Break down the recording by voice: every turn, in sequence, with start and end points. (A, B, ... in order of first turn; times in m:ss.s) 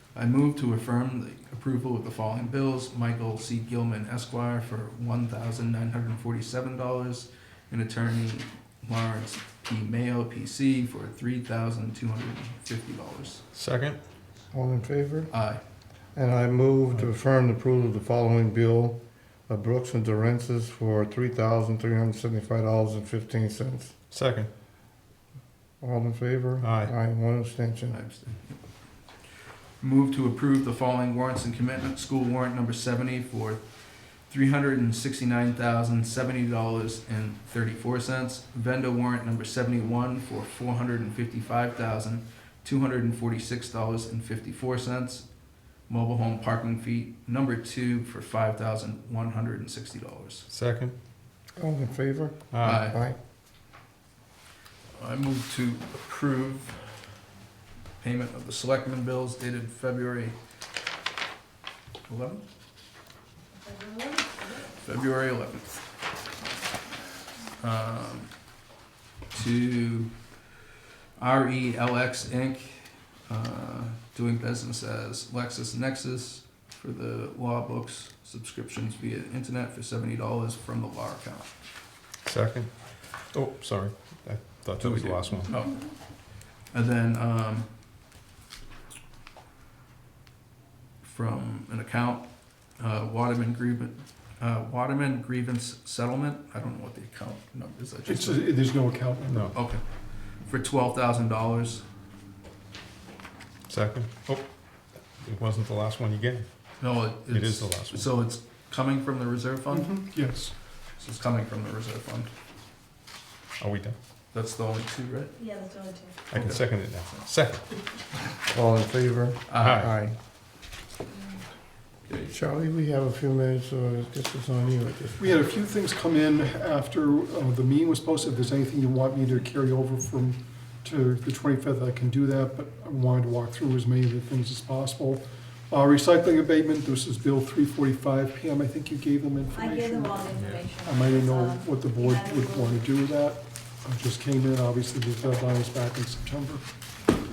0:00.1-0:13.4 A
0:13.5-0:14.0 B
0:14.5-0:15.3 C
0:15.3-0:15.6 A
0:16.1-0:23.9 C
0:24.1-0:24.5 B
0:25.8-0:28.0 C
0:26.6-0:26.9 B
0:27.9-0:28.8 A
0:29.8-0:45.3 A
0:45.9-0:50.5 A
0:50.5-0:51.0 B
0:51.6-0:53.2 C
0:52.5-0:52.8 B
0:52.6-0:53.0 A
0:55.0-0:56.8 A
0:58.0-1:00.4 A
1:02.1-1:02.4 A
1:03.7-1:04.2 D
1:04.8-1:05.8 A
1:07.6-1:08.3 A
1:09.3-1:10.1 A
1:11.2-1:21.5 A
1:22.2-1:22.7 B
1:23.3-1:25.6 B
1:24.8-1:25.8 A
1:26.7-1:27.7 A
1:31.0-1:38.5 A
1:38.1-1:39.5 E
1:39.3-1:39.5 B
1:39.5-1:39.8 A
1:40.4-1:41.8 A
1:43.7-1:44.5 B
1:45.2-1:46.4 B
1:46.8-1:49.9 A
1:47.3-1:48.1 B
1:49.7-1:50.5 E
1:51.0-1:52.3 A
1:53.6-1:54.0 B
1:54.3-1:55.4 A
1:55.4-1:56.1 D
1:56.3-1:57.6 B
1:58.5-2:00.2 C
1:59.5-1:59.8 A
1:59.6-1:59.9 B
2:02.1-2:02.3 A
2:02.3-2:05.4 C
2:05.2-2:20.3 E
2:19.5-2:22.8 D
2:20.8-2:26.6 E